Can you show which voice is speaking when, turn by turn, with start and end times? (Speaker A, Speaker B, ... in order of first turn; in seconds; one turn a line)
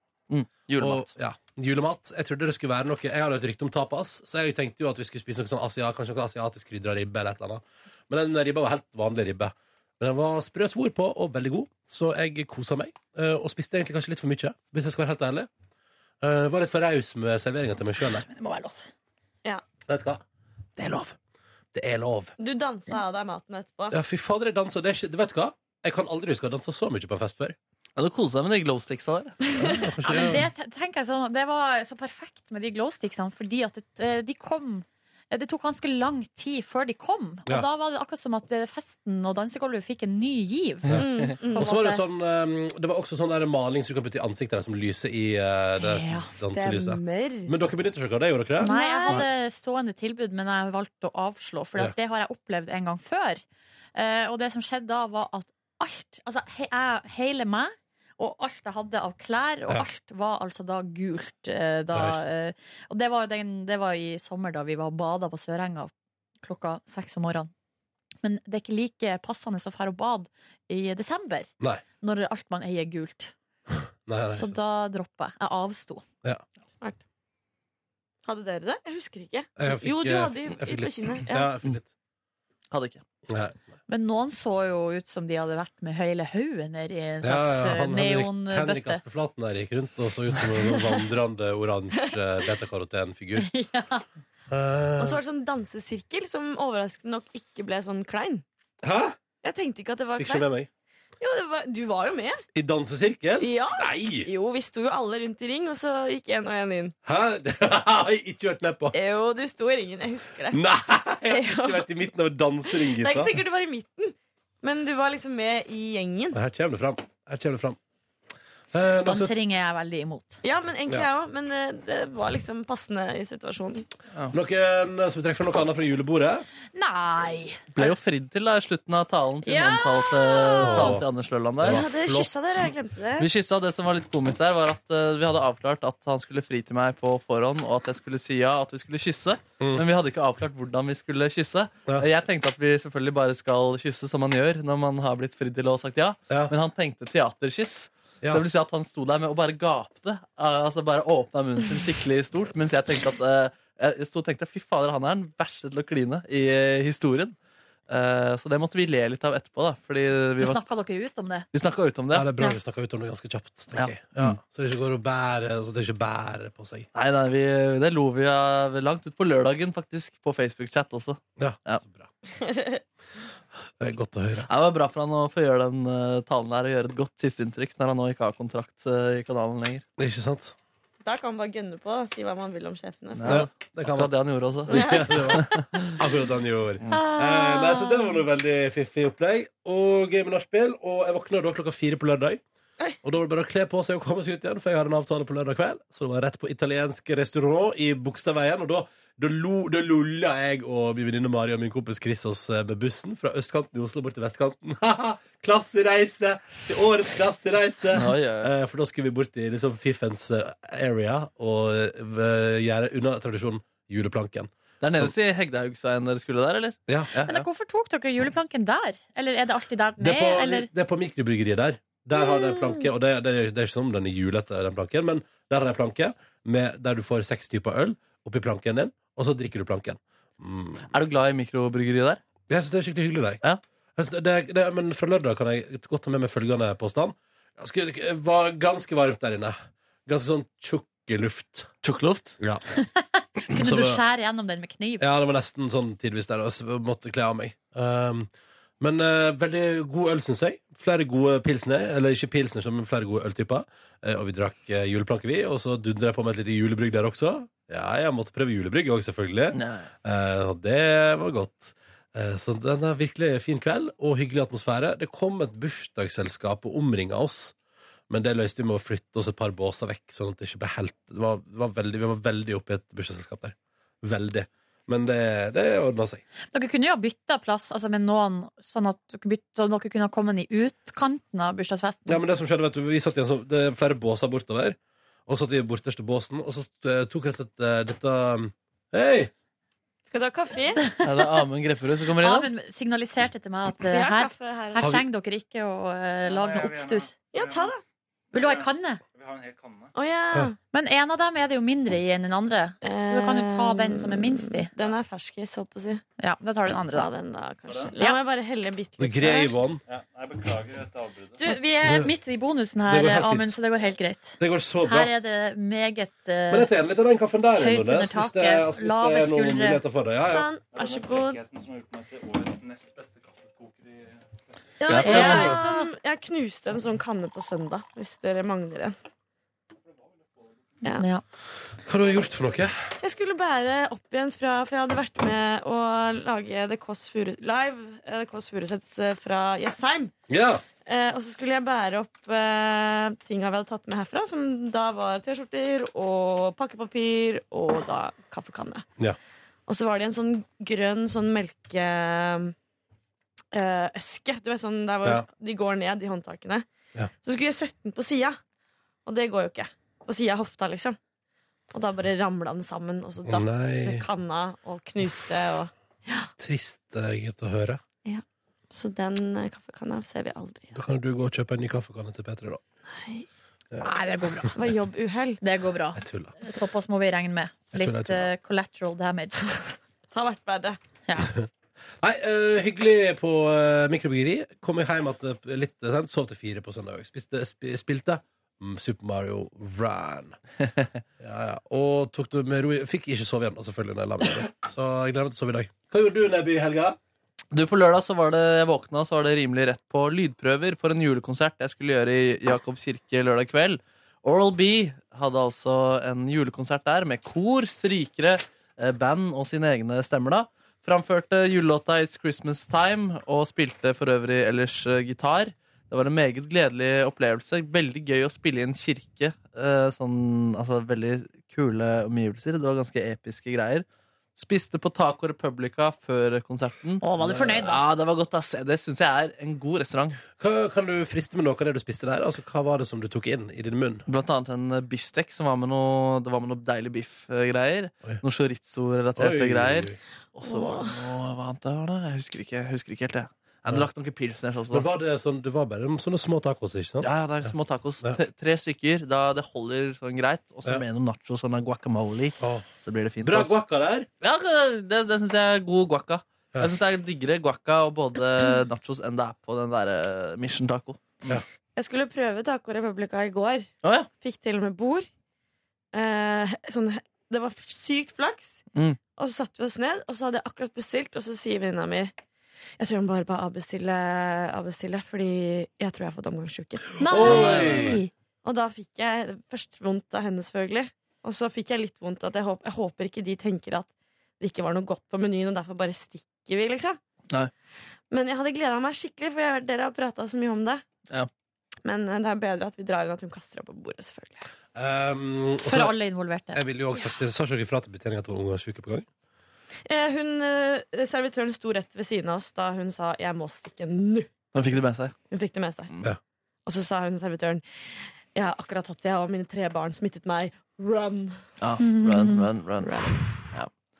Speaker A: 0.3-1.1
Speaker B: 0.8-15.5
Speaker B: 16.2-18.2
Speaker C: 18.1-18.9
Speaker B: 19.9-20.2
Speaker B: 20.8-21.1
Speaker B: 21.7-22.3
Speaker D: 22.4-23.9
Speaker B: 23.9-27.6
Speaker A: 28.0-29.3
Speaker D: 29.4-29.9
Speaker B: 29.6-30.5
Speaker C: 30.0-42.0
Speaker B: 40.9-49.2
Speaker D: 41.0-41.7
Speaker C: 45.8-46.3
Speaker D: 46.5-47.5
Speaker C: 48.6-53.4
Speaker D: 48.6-49.2
Speaker C: 54.0-65.9
Speaker B: 61.9-62.2
Speaker C: 66.4-67.5
Speaker C: 68.2-71.5
Speaker C: 72.0-73.3
Speaker B: 74.0-74.6
Speaker C: 74.3-76.0
Speaker D: 78.2-81.5
Speaker B: 79.6-81.9
Speaker A: 82.7-83.0
Speaker B: 83.3-83.5
Speaker C: 83.9-89.0
Speaker B: 87.2-93.5
Speaker C: 93.4-94.0
Speaker B: 94.5-95.2
Speaker D: 95.0-98.4
Speaker B: 98.8-99.2
Speaker D: 99.4-100.5
Speaker B: 100.2-100.7
Speaker D: 101.2-102.4
Speaker B: 102.5-104.3
Speaker D: 103.4-106.9
Speaker B: 107.0-108.9
Speaker D: 108.9-110.6
Speaker B: 110.5-113.3
Speaker D: 111.3-112.0
Speaker D: 112.6-116.4
Speaker B: 116.3-117.8
Speaker B: 118.7-119.3
Speaker C: 119.0-120.4
Speaker D: 120.4-123.9
Speaker B: 124.3-126.5
Speaker C: 126.7-127.7
Speaker A: 127.7-157.3
Speaker C: 129.4-130.8
Speaker B: 130.6-131.0
Speaker B: 131.6-132.0
Speaker D: 131.6-133.3
Speaker A: 157.9-160.6
Speaker C: 160.4-161.5
Speaker A: 161.5-162.3
Speaker B: 162.1-166.9
Speaker A: 163.7-164.4
Speaker A: 166.9-171.8
Speaker B: 171.4-172.1
Speaker D: 172.3-172.8
Speaker B: 173.8-174.5
Speaker A: 174.5-179.8
Speaker B: 180.0-180.5
Speaker D: 181.0-183.4
Speaker A: 183.1-185.9
Speaker B: 183.2-184.1
Speaker B: 184.7-192.4
Speaker D: 184.7-185.2
Speaker D: 187.0-187.8
Speaker B: 193.0-215.1
Speaker A: 207.9-208.5
Speaker A: 214.8-217.4
Speaker C: 217.2-220.7
Speaker B: 220.0-230.9
Speaker A: 230.9-232.2
Speaker B: 232.5-233.4
Speaker B: 234.0-239.6
Speaker B: 240.1-241.7
Speaker A: 241.8-242.3
Speaker C: 242.7-245.0
Speaker B: 243.5-244.0
Speaker B: 245.0-267.5
Speaker A: 259.5-259.9
Speaker B: 268.1-276.2
Speaker C: 276.5-282.2
Speaker B: 282.1-289.3
Speaker D: 290.1-290.9
Speaker A: 291.0-292.5
Speaker C: 292.2-297.1
Speaker D: 293.9-294.9
Speaker D: 297.3-297.8
Speaker C: 298.3-299.0
Speaker D: 299.9-300.6
Speaker C: 300.7-304.7
Speaker D: 302.8-306.0
Speaker C: 306.2-307.1
Speaker D: 306.9-309.6
Speaker B: 309.0-309.8
Speaker C: 311.4-316.7
Speaker B: 311.8-312.1
Speaker B: 312.9-313.6
Speaker B: 314.4-315.1
Speaker B: 316.5-320.5
Speaker C: 317.6-319.8
Speaker D: 320.2-321.4
Speaker D: 324.8-328.9
Speaker A: 324.9-325.5
Speaker C: 325.0-325.9
Speaker C: 330.9-331.2
Speaker B: 331.8-332.8
Speaker D: 333.0-340.1
Speaker B: 340.3-340.6
Speaker D: 340.8-348.9
Speaker D: 349.7-352.5
Speaker D: 353.5-356.6
Speaker D: 357.2-358.4
Speaker D: 359.1-361.0
Speaker D: 361.7-366.3
Speaker B: 363.2-364.1
Speaker B: 366.4-367.8
Speaker D: 368.0-370.8
Speaker B: 370.7-372.6
Speaker D: 372.9-373.2
Speaker C: 373.8-374.5
Speaker D: 374.5-375.4
Speaker C: 375.4-379.5
Speaker B: 375.9-376.3
Speaker B: 377.7-378.3
Speaker D: 380.1-380.8
Speaker C: 381.1-381.3
Speaker B: 382.0-390.4
Speaker B: 391.2-397.0
Speaker A: 397.5-423.8
Speaker A: 424.4-430.2
Speaker C: 427.0-427.8
Speaker B: 430.4-434.0
Speaker A: 434.1-444.9
Speaker B: 439.2-440.0
Speaker D: 440.4-440.9
Speaker B: 444.7-447.5
Speaker A: 447.0-453.5
Speaker B: 452.4-452.7
Speaker B: 453.2-454.1
Speaker A: 454.2-461.2
Speaker D: 461.8-465.1
Speaker A: 463.8-464.1
Speaker D: 465.9-468.6
Speaker D: 469.2-472.1
Speaker D: 472.8-477.4
Speaker C: 477.0-478.1
Speaker B: 477.1-478.0
Speaker A: 477.2-477.9
Speaker D: 478.4-487.0
Speaker D: 488.1-490.8
Speaker D: 491.8-494.5
Speaker B: 494.7-495.9
Speaker C: 495.7-496.6
Speaker B: 496.5-499.1
Speaker D: 499.9-504.3
Speaker A: 504.5-505.1
Speaker D: 505.3-505.9
Speaker D: 506.6-507.6
Speaker D: 508.3-511.4
Speaker A: 511.6-513.7
Speaker C: 511.8-512.4
Speaker D: 512.8-513.2